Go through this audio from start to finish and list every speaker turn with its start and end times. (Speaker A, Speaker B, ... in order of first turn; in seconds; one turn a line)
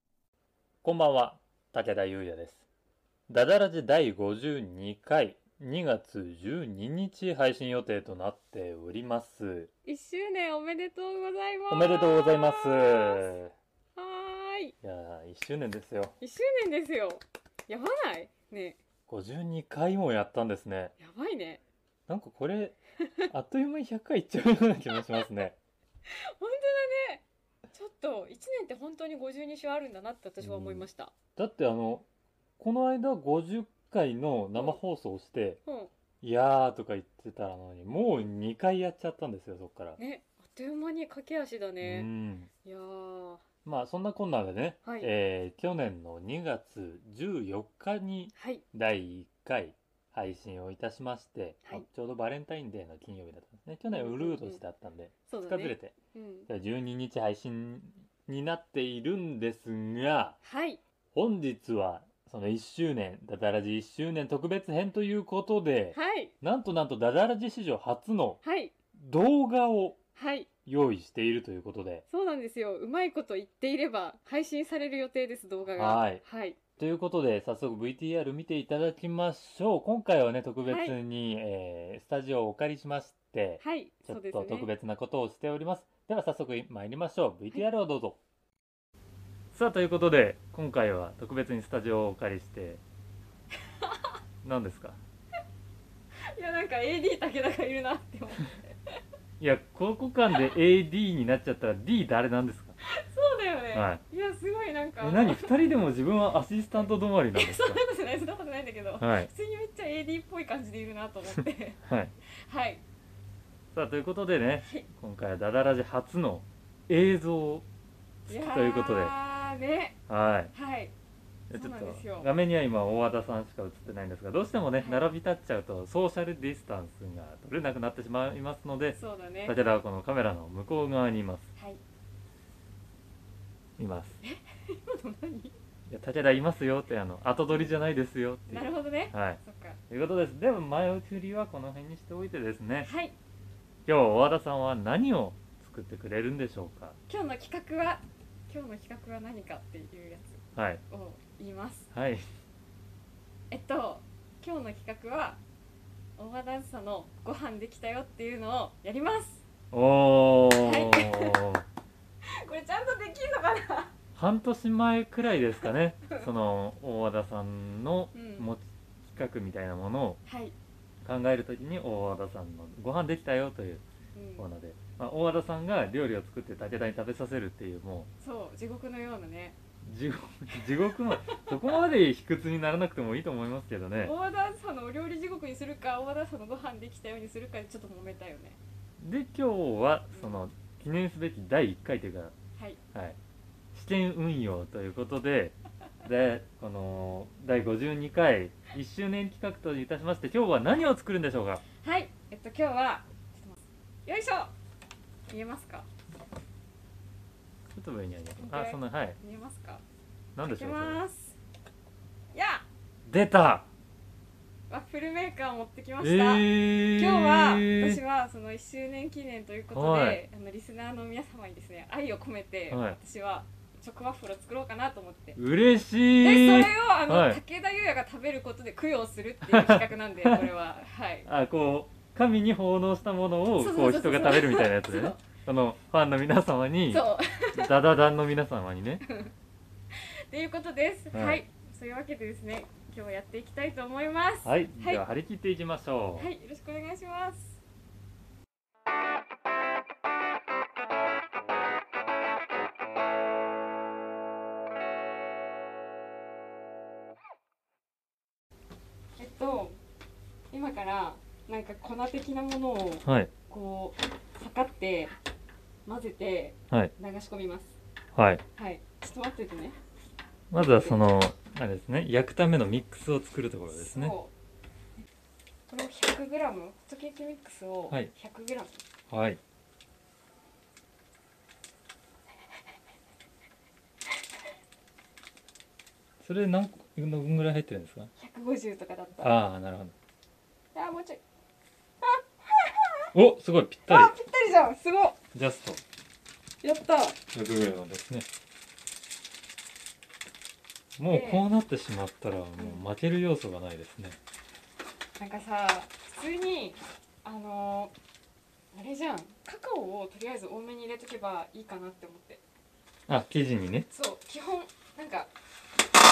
Speaker A: 0.8-2.6
Speaker A: 3.3-9.7
Speaker B: 9.8-13.3
Speaker A: 11.7-13.5
Speaker B: 13.9-14.7
Speaker A: 14.8-16.1
Speaker B: 16.2-18.8
Speaker A: 19.1-20.9
Speaker B: 21.0-21.6
Speaker A: 22.1-22.8
Speaker B: 23.0-23.3
Speaker A: 23.3-25.6
Speaker B: 26.1-31.1
Speaker A: 30.4-32.1
Speaker A: 32.6-35.6
Speaker B: 34.5-34.8
Speaker B: 35.6-35.9
Speaker A: 36.2-40.0
Speaker B: 40.0-42.1
Speaker A: 41.8-42.5
Speaker B: 42.6-43.4
Speaker A: 43.6-55.9
Speaker B: 44.8-45.1
Speaker B: 48.4-48.6
Speaker B: 53.9-54.6
Speaker B: 55.3-56.5
Speaker A: 56.5-60.4
Speaker B: 60.4-60.8
Speaker A: 61.1-68.4
Speaker B: 65.9-66.3
Speaker B: 68.4-68.7
Speaker A: 68.9-70.0
Speaker B: 70.2-70.5
Speaker A: 70.6-72.0
Speaker B: 72.1-76.6
Speaker A: 75.8-76.2
Speaker A: 76.8-88.2
Speaker B: 80.7-81.0
Speaker B: 83.6-84.7
Speaker A: 89.5-92.8
Speaker B: 93.8-94.1
Speaker A: 94.4-95.0
Speaker B: 96.2-98.8
Speaker A: 99.4-102.8
Speaker B: 102.8-105.5
Speaker A: 103.7-104.0
Speaker A: 105.0-107.8
Speaker B: 107.3-112.8
Speaker A: 109.0-109.3
Speaker A: 111.8-112.1
Speaker A: 113.7-117.7
Speaker B: 114.6-114.9
Speaker B: 118.3-120.0
Speaker A: 118.3-119.1
Speaker A: 120.1-120.5
Speaker B: 120.5-120.9
Speaker A: 121.5-131.5
Speaker B: 121.5-122.3
Speaker B: 124.8-125.0
Speaker B: 128.9-129.6
Speaker A: 133.8-134.2
Speaker B: 134.2-135.5
Speaker A: 135.9-142.9
Speaker B: 138.5-139.8
Speaker B: 142.8-143.1
Speaker A: 143.8-147.0
Speaker B: 147.1-151.9
Speaker A: 150.5-150.8
Speaker A: 151.9-152.2
Speaker B: 153.5-155.4
Speaker B: 156.2-159.4
Speaker A: 159.7-161.7
Speaker B: 160.6-161.4
Speaker B: 162.2-163.9
Speaker A: 164.2-170.2
Speaker B: 168.1-168.5
Speaker B: 170.2-170.6
Speaker A: 171.0-173.8
Speaker B: 174.1-174.5
Speaker A: 174.4-178.1
Speaker B: 178.2-179.6
Speaker A: 179.8-184.1
Speaker B: 181.1-181.5
Speaker B: 184.0-188.6
Speaker A: 189.0-192.3
Speaker B: 190.1-190.5
Speaker A: 193.7-201.6
Speaker B: 201.8-204.5
Speaker B: 205.3-205.9
Speaker A: 207.7-209.2
Speaker B: 208.4-209.8
Speaker A: 210.3-211.0
Speaker B: 210.5-211.3
Speaker B: 212.3-212.7
Speaker A: 213.0-213.7
Speaker B: 214.7-225.4
Speaker A: 216.0-218.0
Speaker A: 219.7-220.2
Speaker A: 222.7-223.0
Speaker A: 225.4-227.4
Speaker B: 226.2-231.3
Speaker A: 229.4-230.5
Speaker A: 231.2-239.0
Speaker B: 233.6-235.2
Speaker B: 236.9-237.8
Speaker B: 239.0-239.3
Speaker B: 239.9-245.0
Speaker A: 241.1-241.4
Speaker A: 244.4-246.3
Speaker B: 246.2-247.6
Speaker B: 259.2-259.8
Speaker B: 260.5-265.1
Speaker A: 263.1-263.3
Speaker B: 265.9-267.8
Speaker A: 268.1-268.4
Speaker B: 268.6-269.8
Speaker A: 270.5-274.1
Speaker B: 270.5-271.0
Speaker B: 273.7-274.3
Speaker B: 275.7-278.8
Speaker A: 279.1-279.4
Speaker A: 286.2-288.1
Speaker B: 288.2-289.3
Speaker A: 289.2-289.9
Speaker B: 290.7-291.2
Speaker B: 292.0-293.1
Speaker A: 293.1-294.1
Speaker B: 293.9-295.2
Speaker A: 295.3-295.8
Speaker B: 296.6-297.2
Speaker A: 297.3-298.3
Speaker A: 301.0-304.2
Speaker B: 301.1-301.4
Speaker B: 302.6-302.8
Speaker B: 305.2-307.9
Speaker B: 308.7-312.4
Speaker A: 313.1-313.9
Speaker B: 313.9-315.3